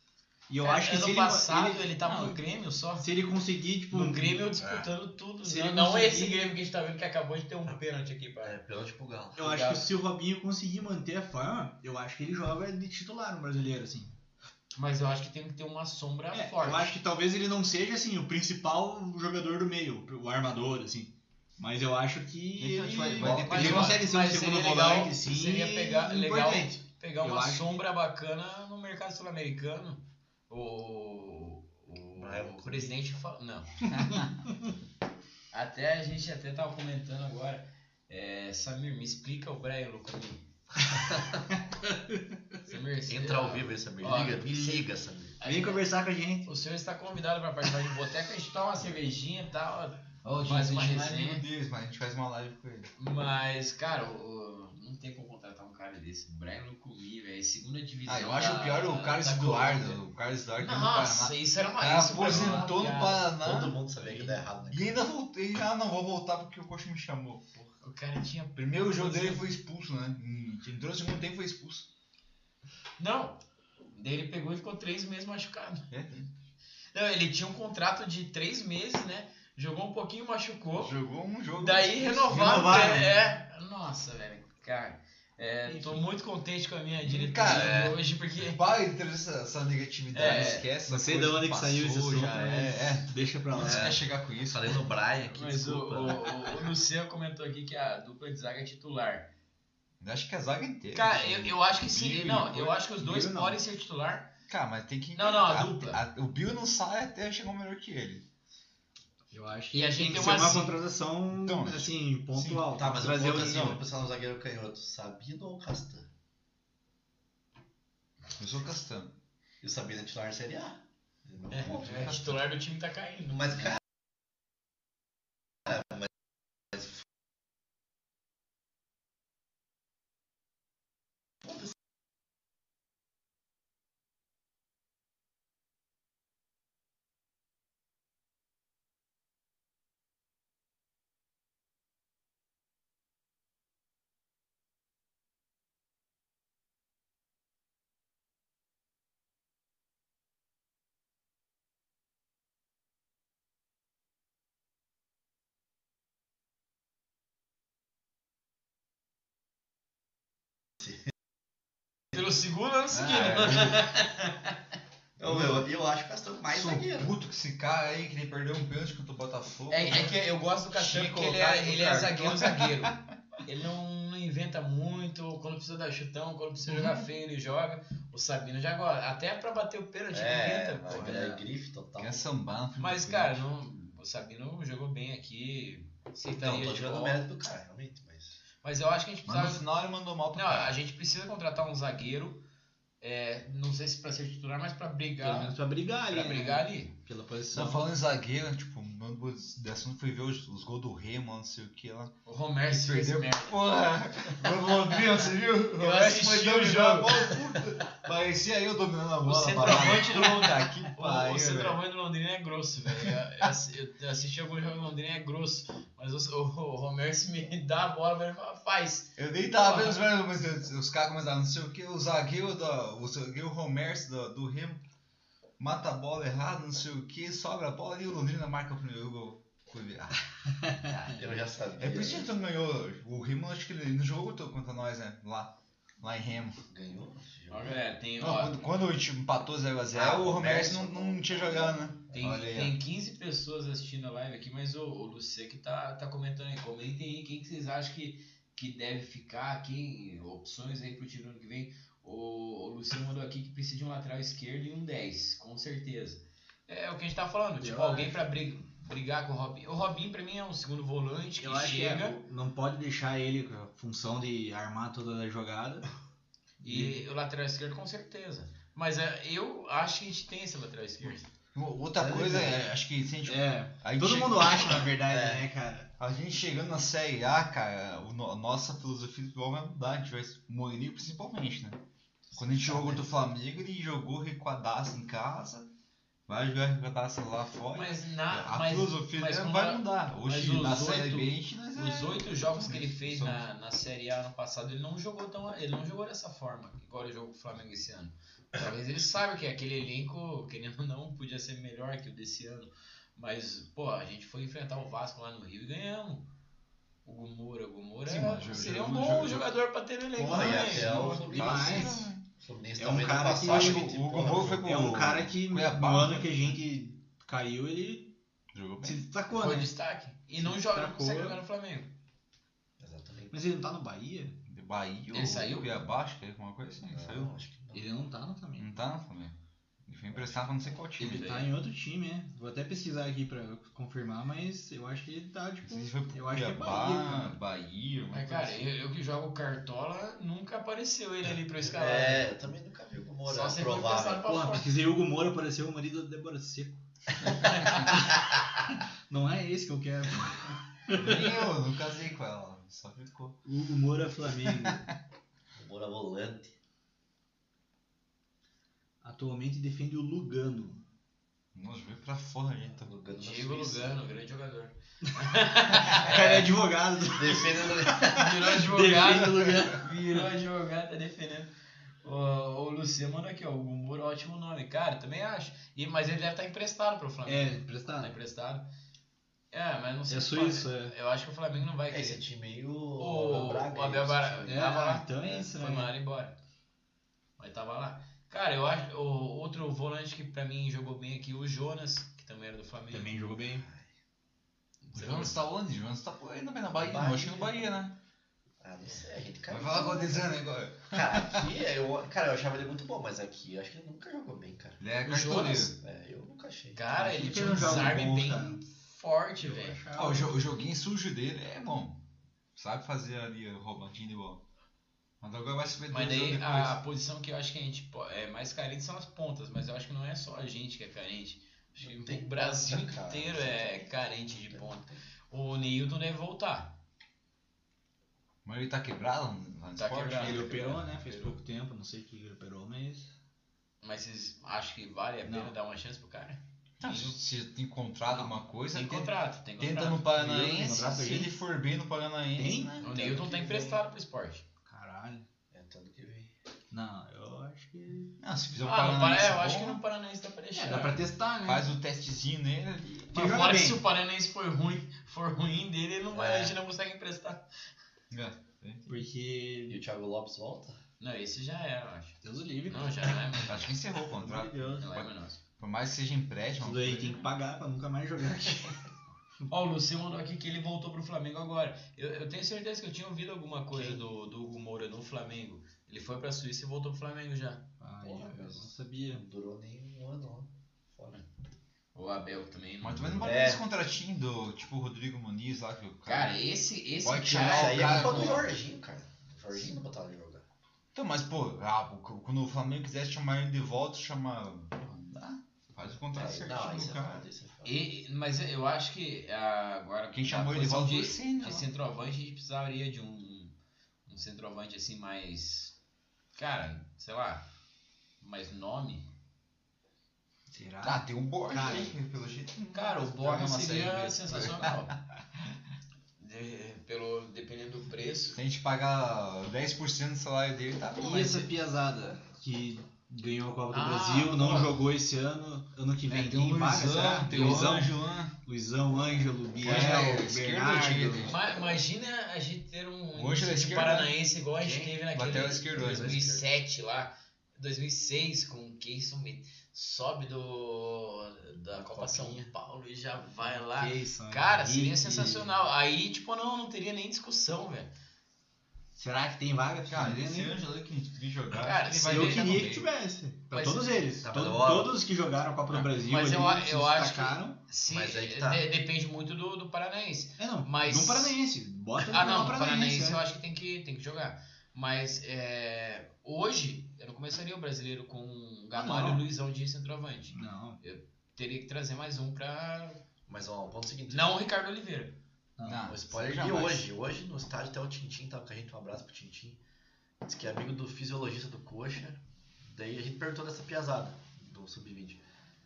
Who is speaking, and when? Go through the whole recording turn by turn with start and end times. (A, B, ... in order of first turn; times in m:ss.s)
0:00.5-0:02.3 A
0:00.6-0:03.1 B
0:03.0-0:04.5 A
0:03.9-0:08.6 B
0:04.6-0:04.9 C
0:05.4-0:06.5 A
0:08.4-0:09.4 C
0:09.4-0:14.1 A
0:09.4-0:09.8 B
0:14.8-0:16.9 B
0:16.3-0:27.8 A
0:22.6-0:24.1 D
0:23.0-0:23.6 C
0:23.4-0:33.8 B
0:32.2-0:32.9 C
0:33.9-0:34.3 D
0:35.5-0:40.4 B
0:41.8-0:42.3 A
0:42.6-0:44.8 B
0:43.1-0:45.4 C
0:45.4-0:45.8 B
0:45.4-0:46.5 A
0:46.4-0:51.4 B
0:50.2-0:52.9 D
0:53.0-1:00.0 B
0:58.0-1:07.7 D
1:00.6-1:03.3 B
1:02.3-1:02.6 C
1:03.3-1:04.9 C
1:07.8-1:09.4 B
1:08.5-1:11.9 D
1:13.0-1:13.4 B
1:13.9-1:15.9 B
1:15.9-1:16.3 D
1:16.9-1:20.9 B
1:20.8-1:23.1 D
1:21.6-1:28.6 B
1:22.3-1:23.2 A
1:25.6-1:26.0 A
1:27.0-1:34.9 D
1:27.5-1:28.0 C
1:30.1-1:30.7 B
1:30.8-1:34.0 A
1:33.6-1:36.6 C
1:35.3-1:39.3 B
1:40.0-1:42.8 D
1:40.9-1:44.3 B
1:43.0-1:43.6 A
1:44.5-1:48.2 D
1:45.1-1:46.0 B
1:49.3-1:53.8 A
1:49.7-1:50.7 B
1:51.3-1:53.8 D
1:52.8-1:56.1 C
1:58.4-1:59.2 D
1:59.6-2:02.0 C
2:01.5-2:03.7 B
2:01.6-2:02.4 D
2:42.1-2:44.5 B
2:42.9-2:44.0 D
2:45.2-2:47.1 C
2:45.2-2:45.6 D
2:46.5-2:50.2 D
2:49.7-3:01.2 B
2:50.7-2:53.0 D
2:56.7-2:57.0 D
3:00.1-3:02.2 C
3:00.9-3:01.4 A
3:02.0-3:03.4 D
3:02.8-3:07.2 B
3:06.3-3:08.4 C
3:08.6-3:09.6 B
3:09.2-3:10.7 D
3:10.3-3:12.4 B
3:13.0-3:15.5 B
3:15.2-3:17.8 A
3:16.1-3:16.9 B
3:17.5-3:22.1 D
3:22.2-3:23.6 B
3:22.7-3:31.8 D
3:25.8-3:27.4 B
3:29.2-3:40.0 B
3:33.0-3:33.5 D
3:39.2-3:44.8 D
3:45.6-3:51.2 D
3:51.0-3:52.3 C
3:51.8-3:56.6 D
3:56.7-3:57.8 C
3:57.5-3:58.6 B
3:58.2-4:02.8 D
3:59.9-4:01.9 C
4:02.1-4:22.2 B
4:17.6-4:18.2 A
4:21.4-4:25.9 A
4:26.6-4:27.0 A
4:26.6-4:31.3 B
4:31.5-4:34.8 D
4:32.0-4:32.6 C
4:33.2-4:35.9 A
4:35.1-4:35.4 C
4:36.0-4:41.8 D
4:42.3-4:43.1 C
4:42.4-4:45.7 D
4:46.3-4:53.4 D
4:47.7-5:06.3 B
5:07.0-5:11.5 B
5:08.0-5:09.5 D
5:10.2-5:14.7 C
5:10.2-5:12.1 A
5:10.9-5:12.2 D
5:12.8-5:18.1 A
5:13.4-5:16.6 D
5:18.5-5:19.0 D
5:18.8-5:19.7 A
5:19.3-5:21.9 B
5:20.4-5:21.4 A
5:22.8-5:23.3 C
5:23.3-5:24.4 A
5:24.5-5:27.3 D
5:25.1-5:25.7 B
5:26.8-5:27.9 C
5:27.7-5:28.7 A
5:28.6-5:31.4 D
5:31.0-5:37.4 A
5:31.0-5:31.4 B
5:35.6-5:38.6 D
5:38.1-5:42.3 B
5:41.6-5:44.2 C
5:43.2-5:44.7 B
5:44.2-5:51.3 A
5:50.9-5:53.4 D
5:53.4-5:54.8 A
5:54.4-5:54.9 D
5:55.5-5:56.5 C
5:59.0-6:00.8 A
6:01.5-6:02.9 D
6:02.8-6:03.9 C
6:03.2-6:06.5 B
6:05.7-6:10.2 A
6:07.2-6:08.2 C
6:08.1-6:11.5 B
6:12.0-6:18.7 B
6:17.2-6:18.1 A
6:19.5-6:22.2 B
6:20.1-6:20.9 A
6:21.9-6:24.7 C
6:23.0-6:26.3 B
6:24.4-6:25.9 A
6:27.4-6:33.1 B
6:32.9-6:33.6 A
6:33.5-6:33.9 C
6:34.8-6:35.4 B
6:34.9-6:38.0 D
6:36.7-6:37.7 C
6:38.6-6:44.8 C
6:39.5-6:41.5 D
6:44.8-6:45.7 D
6:45.0-6:45.8 B
6:45.8-6:47.0 C
6:46.7-6:49.8 B
6:46.9-6:48.6 A
6:49.4-6:50.3 A
6:49.9-6:52.0 D
6:52.5-6:54.4 D
6:55.2-6:56.8 D
6:55.9-7:06.8 B
7:01.8-7:05.0 C
7:08.4-7:10.9 D
7:09.8-7:11.3 B
7:10.2-7:13.1 A
7:13.8-7:17.2 B
7:15.2-7:15.5 A
7:16.8-7:22.9 D
7:18.7-7:20.3 B
7:20.1-7:21.3 A
7:22.4-7:23.8 A
7:22.8-7:24.4 B
7:24.6-7:25.2 A
7:25.5-7:26.3 C
7:26.7-7:28.1 A
7:28.2-7:29.8 D
7:28.6-7:31.0 B
7:30.5-7:31.7 A
7:31.4-7:33.2 D
7:33.1-7:33.8 A
7:33.1-7:37.4 B
7:36.1-7:36.6 C
7:38.1-7:38.8 D
7:38.9-7:39.8 A
7:39.7-7:40.8 C
7:41.0-7:43.7 B
7:42.2-7:43.3 A
7:43.5-7:47.3 D
7:44.1-7:44.9 A
7:44.8-7:45.4 B
7:46.6-7:48.8 A
7:49.5-7:57.6 B
7:57.8-7:59.2 A
7:58.0-8:01.2 C
8:01.9-8:03.5 B
8:02.8-8:06.4 D
8:03.2-8:03.6 C
8:06.0-8:08.5 B
8:07.0-8:08.5 D
8:07.3-8:10.4 C
8:10.9-8:17.2 D
8:16.1-8:17.8 C
8:17.6-8:23.6 B
8:20.1-8:21.7 D
8:24.1-8:25.8 B
8:26.3-8:27.5 B
8:28.2-8:29.1 B
8:30.5-8:32.0 A
8:30.8-8:35.0 D
8:32.7-8:35.0 B
8:36.2-8:38.4 B
8:38.3-8:41.5 D
8:41.0-8:51.3 A
8:43.7-8:44.7 B
8:46.1-8:48.3 D
8:49.6-8:51.4 D
8:51.2-9:07.9 B
8:53.1-8:54.1 D
8:54.7-8:56.5 C
8:55.1-8:56.2 D
9:01.9-9:02.3 C
9:03.7-9:05.5 A
9:09.0-9:10.6 A
9:09.9-9:12.9 D
9:11.5-9:12.6 B
9:12.1-9:17.6 A
9:13.5-9:13.9 B
9:14.2-9:15.0 C
9:15.8-9:21.4 B
9:17.9-9:18.6 C
9:20.4-9:23.2 A
9:22.0-9:33.0 B
9:28.8-9:29.2 A
9:30.3-9:30.8 A
9:33.3-9:34.4 C
9:34.1-9:35.2 B
9:35.6-9:35.8 A
9:35.6-9:36.9 D
9:35.8-9:39.6 C
9:40.2-9:45.2 C